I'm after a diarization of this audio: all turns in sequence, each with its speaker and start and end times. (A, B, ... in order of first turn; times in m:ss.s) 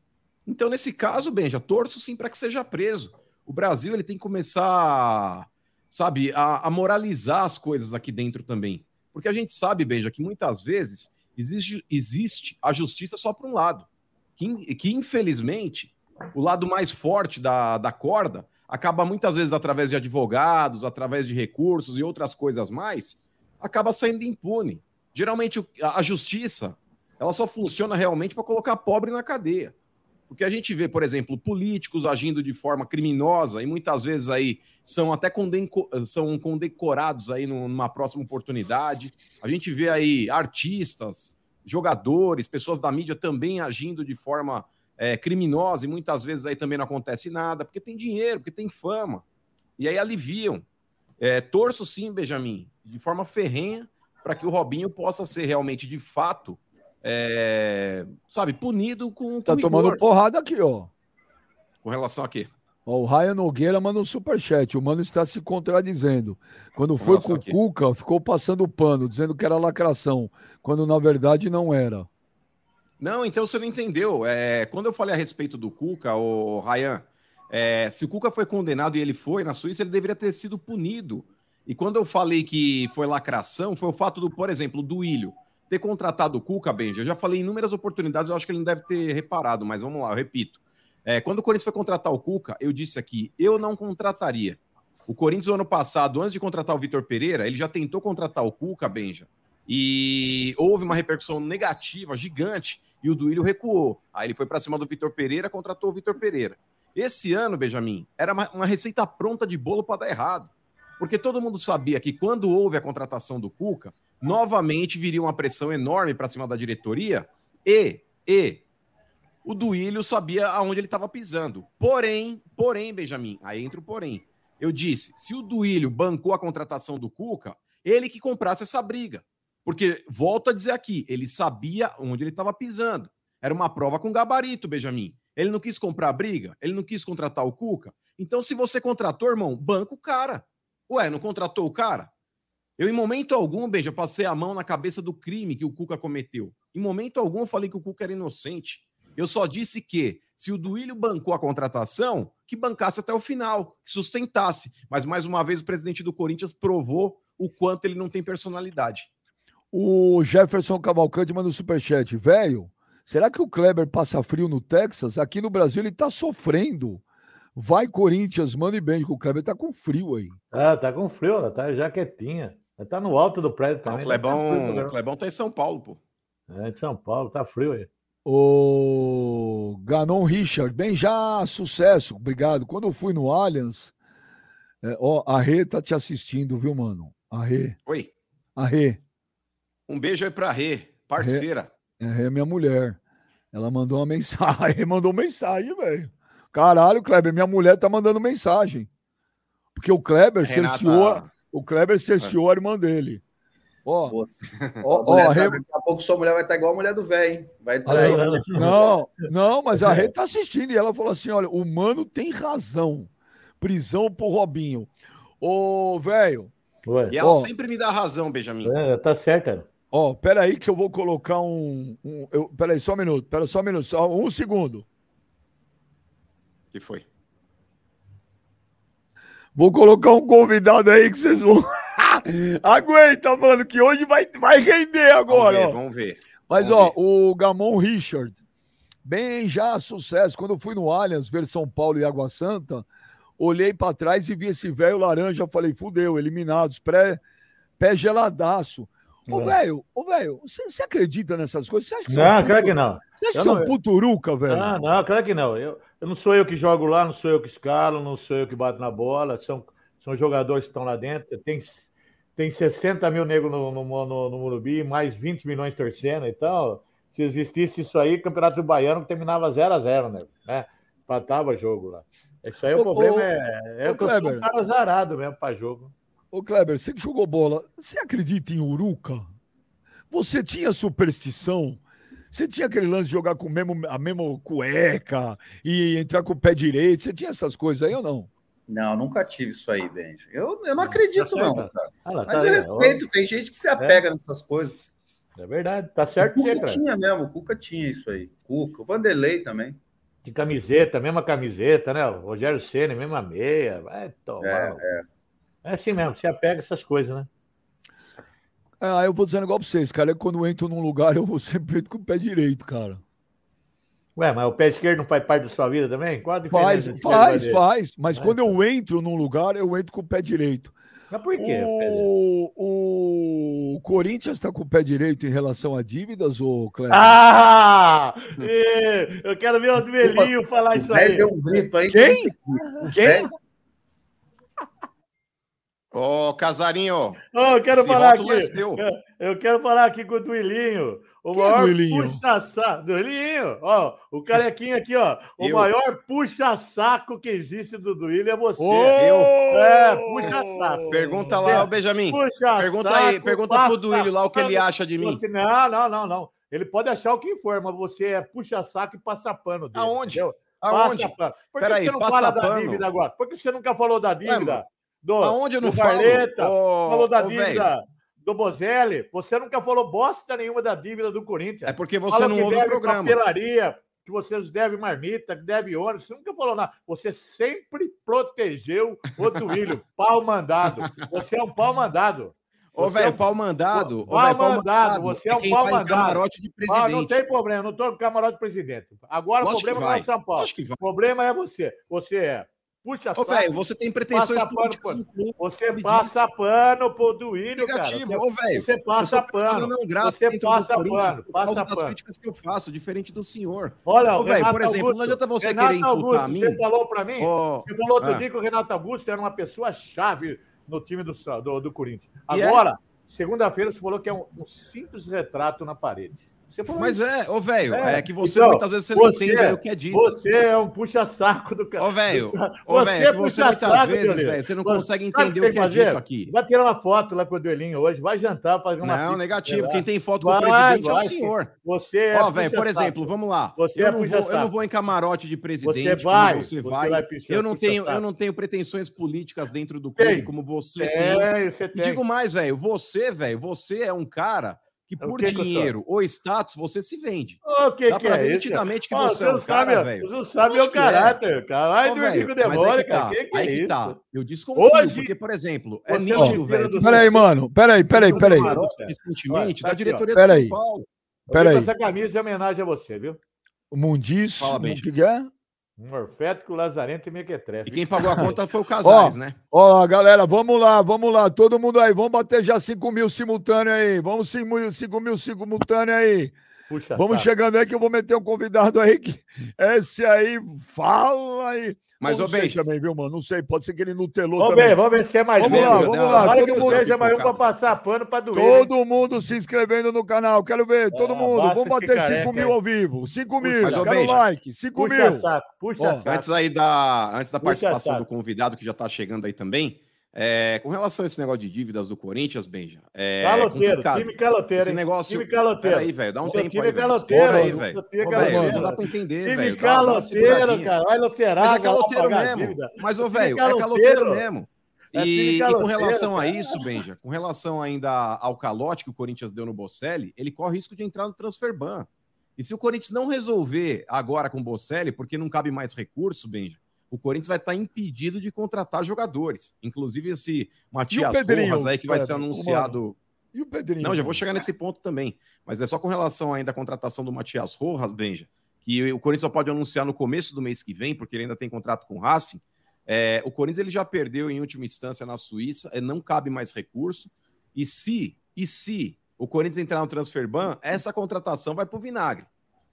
0:00.4-0:13.9 A
0:14.4-0:29.7 A
0:30.3-0:49.2 A
0:49.8-0:50.6 A
0:51.2-1:00.0 A
0:59.4-1:00.9 B
1:01.8-1:02.5 A
1:02.8-1:12.1 B
1:07.0-1:07.5 A
1:13.0-1:58.6 A
1:59.4-2:22.1 A
2:22.8-2:39.1 A
2:39.7-2:47.0 B
2:47.5-2:50.3 B
2:50.5-2:54.9 C
2:53.8-2:56.0 A
2:56.5-2:57.9 C
2:58.2-3:03.9 B
3:04.8-3:07.8 B
3:08.6-3:09.0 B
3:09.9-3:11.7 A
3:11.2-3:11.4 B
3:12.0-3:13.0 B
3:13.5-3:18.9 B
3:19.7-3:23.2 B
3:20.4-3:21.3 A
3:23.8-3:24.2 B
3:24.0-3:28.8 D
3:24.8-3:25.6 B
3:27.8-3:34.9 B
3:27.9-3:28.7 C
3:29.7-3:30.1 C
3:35.4-3:36.5 B
3:36.8-3:37.1 C
3:37.1-3:38.7 A
3:37.1-3:37.5 B
3:38.6-3:39.6 C
3:39.9-3:44.8 B
3:46.7-3:47.0 A
3:49.5-3:55.8 B
3:55.3-3:56.9 A
3:56.5-3:58.4 B
3:59.0-4:02.8 B
4:03.4-4:07.2 B
4:07.8-4:14.7 B
4:09.3-4:09.6 C
4:12.1-4:13.7 C
4:14.5-4:35.9 C
4:32.7-4:33.3 B
4:33.8-4:34.4 B
4:36.3-4:39.3 B
4:40.1-4:41.8 B
4:42.3-4:48.3 B
4:48.7-4:54.8 D
4:50.8-4:53.0 C
4:53.8-4:54.0 C
4:55.4-4:56.8 C
4:56.2-4:59.8 D
5:00.2-5:04.8 C
5:04.4-5:05.0 D
5:05.6-5:07.3 C
5:08.8-5:13.0 B
5:14.2-5:17.6 C
5:16.5-5:20.7 B
5:18.1-5:18.6 C
5:21.1-5:22.1 C
5:21.4-5:27.2 B
5:26.9-5:31.3 C
5:30.7-5:33.3 D
5:31.9-5:33.3 B
5:35.9-5:37.2 A
5:37.3-6:42.0 C
5:37.7-5:38.8 A
5:41.3-5:42.2 B
5:45.4-5:45.7 A
5:48.6-5:51.6 B
5:49.0-5:49.3 A
5:50.9-5:55.2 A
5:59.7-6:02.8 A
6:04.2-6:04.6 A
6:05.2-6:07.6 A
6:11.7-6:13.2 A
6:22.7-6:27.1 A
6:29.4-6:30.8 A
6:33.1-6:36.1 A
6:37.6-6:46.6 A
6:43.8-6:57.0 C
6:47.2-6:48.2 A
6:52.3-6:52.6 A
6:56.8-7:00.1 A
6:57.7-7:14.5 C
7:01.8-7:06.3 A
7:08.8-7:11.5 A
7:12.1-7:31.2 A
7:15.6-7:18.0 C
7:20.0-7:22.0 C
7:25.0-7:25.7 C
7:27.4-7:33.9 C
7:31.8-7:37.2 A
7:34.6-7:35.1 C
7:35.9-7:37.3 C
7:36.1-7:38.5 B
7:37.9-7:40.0 C
7:38.0-7:40.8 A
7:40.1-7:40.6 B
7:41.3-7:43.2 C
7:41.3-7:41.7 B
7:43.7-7:45.3 B
7:44.4-7:44.8 A
7:45.8-7:48.4 C
7:47.6-7:49.4 A
7:48.8-7:56.3 B
7:56.7-7:57.3 C
7:57.0-8:04.8 B
8:02.0-8:02.6 A
8:04.4-8:08.7 C
8:05.4-8:07.1 B
8:05.4-8:07.4 A
8:08.3-8:15.3 B
8:10.9-8:12.6 C
8:13.4-8:14.2 C
8:13.6-8:14.2 A
8:14.8-8:16.3 C
8:15.8-8:16.0 B
8:16.0-8:30.7 A
8:17.4-8:18.0 C
8:23.2-8:34.2 C
8:27.2-8:27.6 B
8:28.1-8:28.8 B
8:31.4-8:53.0 A
8:34.9-8:36.6 C
8:50.9-8:52.8 B
8:53.3-8:54.2 B
8:53.8-9:12.3 A